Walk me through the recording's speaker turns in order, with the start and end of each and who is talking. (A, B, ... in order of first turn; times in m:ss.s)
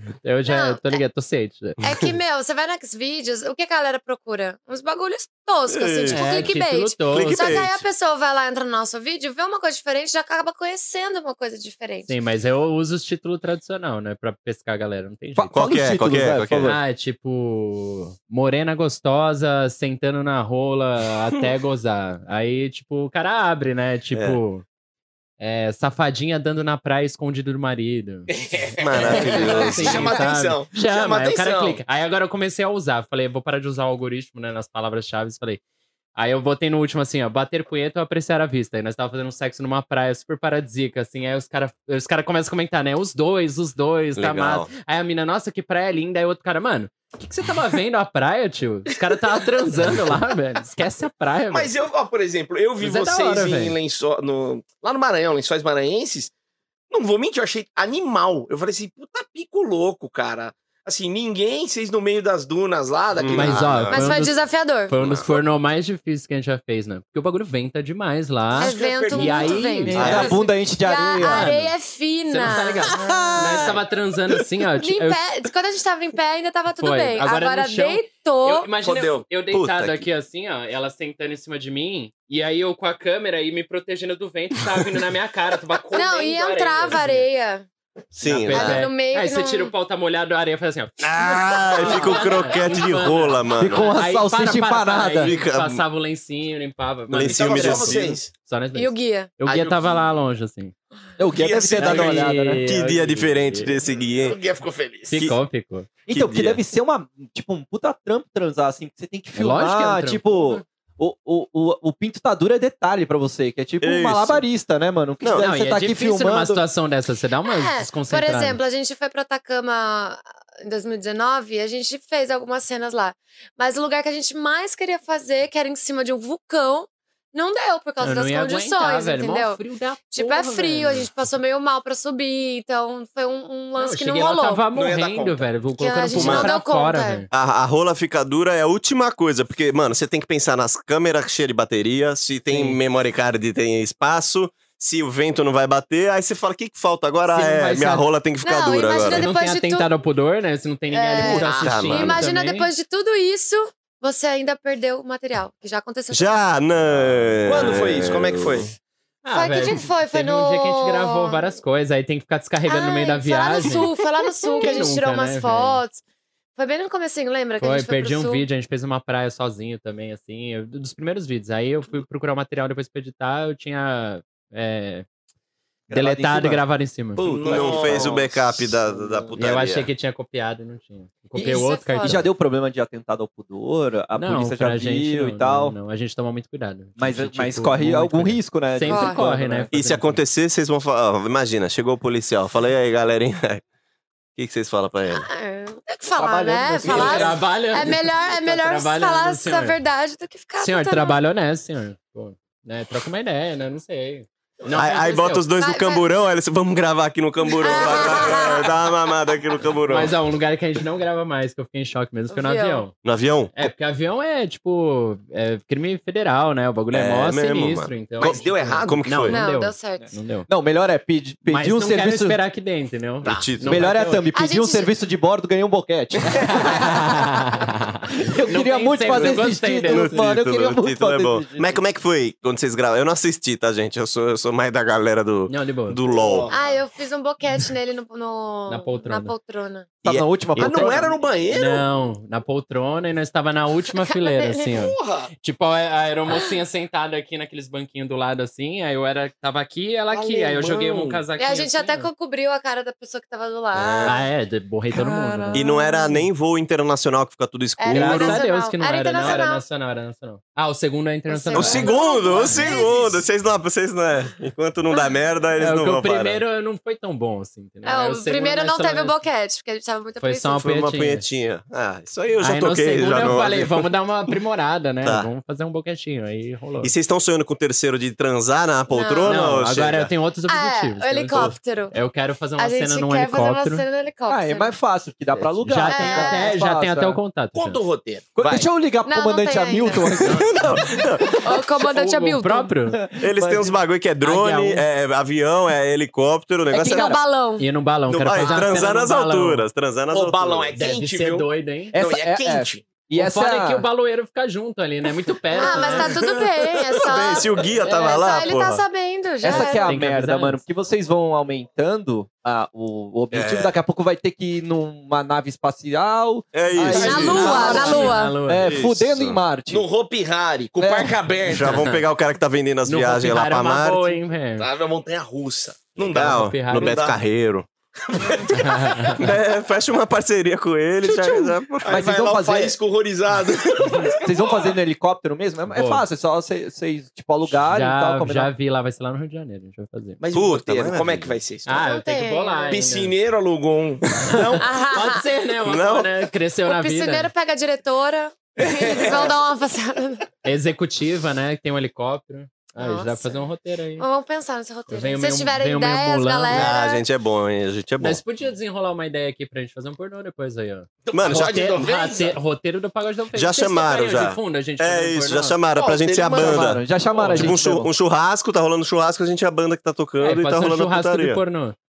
0:00.2-0:01.8 A
0:00.5-0:01.0 B
0:01.8-0:12.1 B
0:05.7-0:07.8 C
0:06.1-0:07.7 A
0:12.1-0:15.7 A
0:15.4-0:16.8 D
0:15.5-0:16.8 C
0:16.6-0:24.6 A
0:24.1-0:24.4 C
0:25.4-0:28.4 A
0:28.4-0:31.8 E
0:28.8-0:30.2 C
0:29.0-0:35.6 A
0:36.2-0:51.7 A
0:44.2-0:44.7 C
0:51.5-0:56.3 E
0:52.8-0:53.8 A
0:56.9-1:03.8 E
1:03.2-1:04.3 C
1:03.3-1:10.4 A
1:03.9-1:04.9 B
1:05.0-1:05.4 C
1:08.6-1:09.7 E
1:08.6-1:13.8 B
1:09.8-1:11.5 D
1:09.9-1:10.4 C
1:11.2-1:11.7 A
1:12.3-1:15.2 A
1:12.9-1:13.7 D
1:14.8-1:18.7 B
1:16.8-1:27.3 A
1:18.8-1:19.2 E
1:19.5-1:20.1 C
1:25.9-1:27.7 B
1:28.1-1:28.9 C
1:28.2-1:40.7 A
1:28.5-1:29.7 B
1:31.0-1:34.0 C
1:33.6-1:35.3 D
1:35.2-1:35.8 C
1:37.1-1:38.2 C
1:37.3-1:38.3 E
1:38.8-1:39.3 B
1:39.4-1:39.9 E
1:41.2-1:42.6 D
1:41.3-1:42.3 E
1:41.8-1:43.8 A
1:42.6-1:44.4 C
1:44.2-1:45.2 E
1:45.1-1:46.0 A
1:46.1-1:46.6 C
1:46.1-1:56.6 D
1:49.4-1:50.6 A
1:53.8-1:54.4 C
1:55.2-1:55.5 C
1:55.4-1:58.6 A
1:57.5-2:14.6 B
2:08.0-2:11.1 A
2:13.8-2:17.3 A
2:14.7-2:15.5 E
2:15.8-2:17.3 B
2:16.1-2:16.5 C
2:17.3-2:29.3 C
2:22.5-2:22.8 A
2:27.3-2:28.1 A
2:28.4-2:29.9 B
2:29.1-2:32.7 A
2:30.9-2:36.4 B
2:31.2-2:31.9 E
2:31.5-2:32.2 C
2:36.1-2:38.7 C
2:37.4-2:38.7 E
2:39.2-2:43.9 A
2:39.3-2:41.5 B
2:42.7-2:46.0 B
2:44.6-2:45.8 A
2:46.6-2:48.5 B
2:47.6-2:55.1 A
2:55.9-2:56.6 D
2:55.9-2:57.6 A
2:57.2-2:59.3 E
2:57.3-2:59.9 C
2:57.8-2:58.2 D
2:59.4-3:02.2 A
3:01.4-3:05.8 D
3:01.4-3:02.2 B
3:04.1-3:10.2 A
3:07.0-3:09.7 D
3:08.8-3:09.2 B
3:09.7-3:13.6 C
3:14.4-3:15.3 C
3:15.1-3:21.2 B
3:16.2-3:17.4 D
3:16.8-3:19.8 A
3:20.6-3:25.4 A
3:24.7-3:30.2 C
3:25.5-3:26.1 B
3:27.6-3:28.8 B
3:29.9-3:32.9 A
3:32.3-3:32.9 B
3:33.0-3:33.6 C
3:33.6-3:40.5 A
3:36.9-3:39.4 C
3:38.2-3:39.2 E
3:39.3-3:40.2 B
3:40.5-3:42.4 D
3:41.5-3:44.2 A
3:43.2-3:44.0 C
3:43.7-3:47.2 D
3:44.3-3:44.9 B
3:46.4-3:50.3 A
3:48.2-3:51.8 D
3:49.8-3:56.5 C
3:55.5-3:56.0 A
3:56.1-3:56.8 E
3:56.5-3:59.9 B
3:58.7-3:59.3 A
4:00.0-4:01.2 D
4:00.0-4:01.9 E
4:00.6-4:12.1 A
4:04.1-4:04.7 B
4:04.7-4:05.3 E
4:10.1-4:11.2 E
4:11.4-4:14.2 B
4:13.7-4:14.2 C
4:14.0-4:16.1 A
4:14.9-4:16.2 B
4:15.5-4:18.5 C
4:17.8-4:19.6 B
4:17.9-4:22.9 A
4:21.3-4:23.1 B
4:21.5-4:26.4 C
4:25.6-4:29.2 A
4:27.8-4:30.6 B
4:30.2-4:31.2 A
4:30.6-4:33.9 C
4:32.4-4:36.9 A
4:35.0-4:35.3 C
4:36.8-4:40.1 C
4:38.9-4:39.6 B
4:39.2-4:43.8 A
4:40.5-4:42.0 B
4:41.3-4:41.6 C
4:42.6-4:44.7 B
4:44.3-4:47.2 D
4:45.4-4:47.8 A
4:45.9-4:46.6 B
4:47.5-4:48.7 E
4:48.4-4:50.8 D
4:49.0-4:50.2 B
4:50.2-4:51.4 C
4:50.2-4:51.0 A
4:51.2-4:52.7 B
4:51.8-4:53.1 A
4:52.9-4:53.8 D
4:53.2-4:57.1 C
4:54.2-4:54.9 A
4:56.7-4:57.7 B
4:56.8-4:57.2 D
4:57.6-4:59.7 A
4:58.1-5:00.8 C
5:00.1-5:02.8 E
5:00.8-5:02.0 A
5:01.9-5:03.8 D
5:03.2-5:06.2 A
5:05.5-5:09.9 B
5:05.9-5:08.8 C
5:07.8-5:08.2 A
5:09.4-5:19.8 D
5:09.5-5:10.6 A
5:13.3-5:13.7 C
5:16.5-5:18.1 C
5:16.9-5:18.7 A
5:16.9-5:18.4 B
5:18.6-5:19.4 C
5:19.7-5:21.9 E
5:20.8-5:21.2 D
5:21.5-5:24.2 C
5:21.7-5:22.0 A
5:22.8-5:24.7 A
5:24.6-5:27.2 E
5:26.1-5:27.7 C
5:26.1-5:27.1 A
5:28.1-5:29.2 E
5:28.5-5:29.2 A
5:29.2-5:32.0 C
5:31.1-5:34.5 E
5:31.8-5:32.8 D
5:34.2-5:38.5 D
5:35.7-5:36.1 A
5:37.6-5:40.2 A
5:40.2-5:41.9 E
5:40.3-5:41.4 C
5:41.7-5:43.2 A
5:41.7-5:42.9 B
5:42.7-5:44.6 E
5:44.2-5:47.3 A
5:44.6-5:45.2 B
5:45.6-5:46.1 C
5:46.7-5:50.2 B
5:48.6-5:49.4 E
5:50.4-5:54.0 A
5:52.8-5:53.4 B
5:54.0-5:57.0 B
5:54.9-5:56.7 A
5:56.5-5:58.2 C
5:58.0-6:05.6 A
6:01.1-6:02.4 E
6:01.1-6:01.7 C
6:03.3-6:11.4 C
6:05.8-6:06.8 E
6:06.3-6:07.9 D
6:07.2-6:07.6 A
6:10.2-6:11.8 A